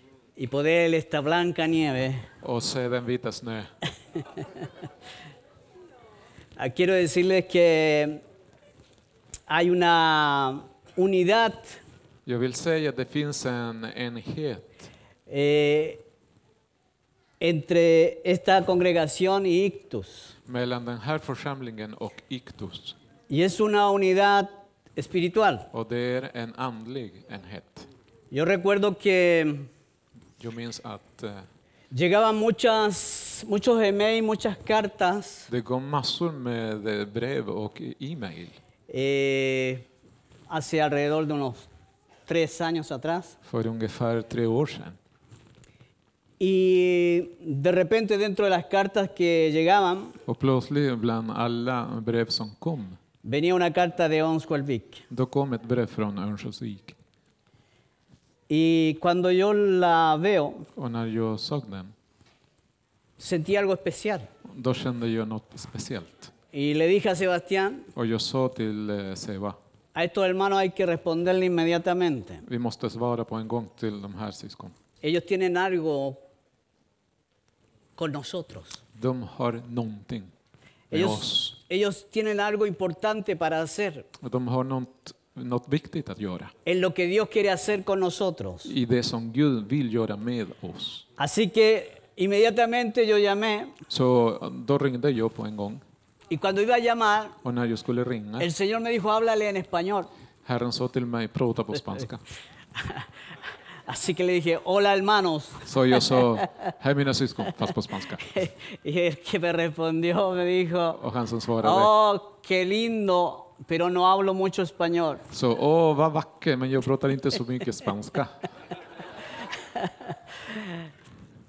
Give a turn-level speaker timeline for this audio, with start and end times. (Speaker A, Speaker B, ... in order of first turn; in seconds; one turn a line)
Speaker A: 0.4-2.3
Speaker B: 2.4-3.7
Speaker A: 6.6-8.2
Speaker A: 9.5-11.8
Speaker B: 12.3-14.9
Speaker A: 15.3-16.0
Speaker A: 17.4-20.4
Speaker B: 20.5-23.0
Speaker A: 23.3-25.7
Speaker B: 25.7-27.9
Speaker A: 28.3-29.7
Speaker B: 30.4-31.5
Speaker A: 31.9-35.5
Speaker B: 35.5-38.6
Speaker A: 38.9-39.9
Speaker A: 40.5-41.7
Speaker A: 42.3-43.4
Speaker B: 43.4-45.0
Speaker A: 46.4-50.2
Speaker B: 50.3-53.0
Speaker A: 53.2-55.0
Speaker B: 55.1-57.0
Speaker A: 58.5-60.7
Speaker B: 60.8-61.9
Speaker A: 63.2-64.3
Speaker B: 64.5-66.3
Speaker A: 66.5-67.9
Speaker B: 68.0-69.6
Speaker A: 70.0-72.5
Speaker B: 72.4-74.8
Speaker A: 75.0-76.2
Speaker A: 78.0-78.8
Speaker B: 79.0-80.3
Speaker A: 80.9-84.1
Speaker B: 80.9-81.5
Speaker B: 84.2-86.5
Speaker A: 86.7-88.8
Speaker B: 88.7-91.1
Speaker A: 91.2-93.8
Speaker B: 93.9-95.8
Speaker A: 96.3-97.4
Speaker B: 97.4-98.5
Speaker A: 98.4-100.1
Speaker B: 100.5-102.2
Speaker A: 102.8-103.1
Speaker A: 103.9-106.7
Speaker B: 105.7-108.5
Speaker A: 108.2-111.0
Speaker B: 110.9-111.9
Speaker A: 111.6-115.2
Speaker B: 115.3-118.5
Speaker A: 119.7-120.7